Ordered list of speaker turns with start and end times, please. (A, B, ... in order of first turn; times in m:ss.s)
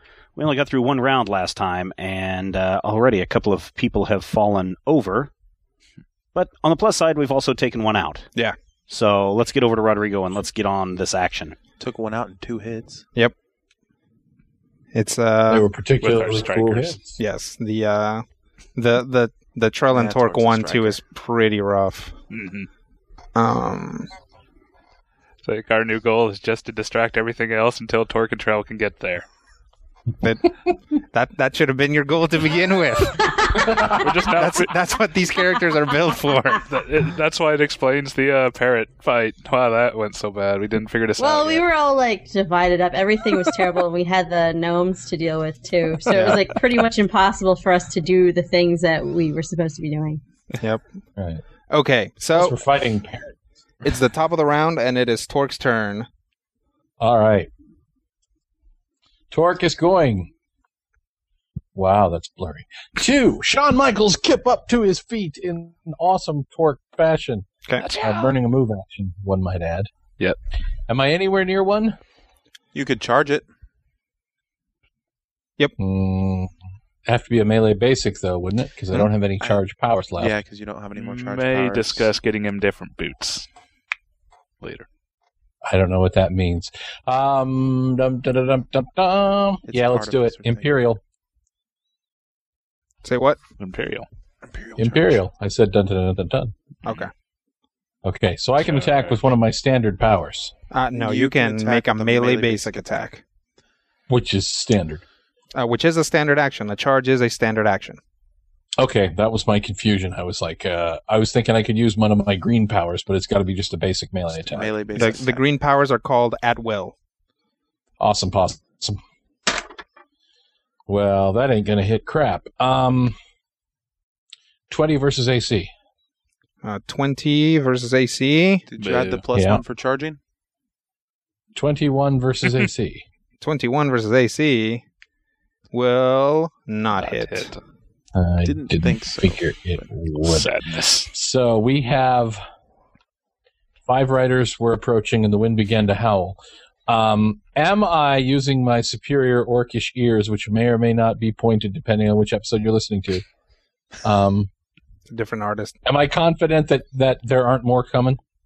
0:00.4-0:05.3 A
0:06.3-0:08.3 A
0:08.9-0:11.6 A
0:11.8-0:13.1 B
0:14.9-0:15.7 C
0:15.5-0:17.2 D
0:16.0-0:17.0 E
0:17.2-0:18.2 C
0:18.8-0:22.2 C
0:19.9-0:21.0 B
0:22.3-0:22.7 E
0:23.4-0:24.1 C
0:25.4-0:29.3 E
0:30.2-0:36.6 C
0:33.9-0:34.7 E
0:36.7-0:41.6 E
0:41.2-0:50.2 F
0:46.1-0:46.4 D
0:50.5-0:50.8 C
0:51.2-0:51.4 D
0:51.7-0:52.6 C
0:52.3-0:53.4 D
0:53.8-0:56.1 C
0:57.0-0:57.5 D
0:59.3-1:00.3 D
1:01.8-1:09.9 D
1:07.9-1:08.3 E
1:10.9-1:12.0 D
1:12.7-1:13.4 B
1:15.8-1:16.5 D
1:17.1-1:20.4 D
1:18.9-1:19.6 B
1:20.2-1:22.1 B
1:21.0-1:23.5 E
1:25.6-1:31.0 D
1:29.7-1:30.8 B
1:33.0-1:33.4 C
1:33.6-1:34.1 E
1:34.4-1:35.2 B
1:34.8-1:36.5 D
1:38.0-1:40.5 D
1:38.6-1:39.2 E
1:40.7-1:43.2 C
1:40.9-1:42.9 B
1:44.1-1:45.0 D
1:45.5-1:48.0 C
1:48.8-1:54.7 D
1:54.4-1:55.4 B
1:55.0-1:57.0 C
1:58.0-1:59.0 D
2:00.9-2:03.2 D
2:04.7-2:05.7 D
2:06.6-2:08.6 C
2:08.7-2:10.2 B
2:08.8-2:09.2 E
2:09.3-2:09.6 D
2:11.6-2:13.0 D
2:13.4-2:14.8 C
2:15.7-2:17.5 C
2:17.0-2:17.6 E
2:18.2-2:20.5 D
2:18.4-2:19.9 B
2:20.2-2:21.1 E
2:21.1-2:22.4 D
2:23.9-2:33.2 D
2:34.0-2:34.5 D
2:35.1-2:35.8 C
2:35.8-2:38.2 D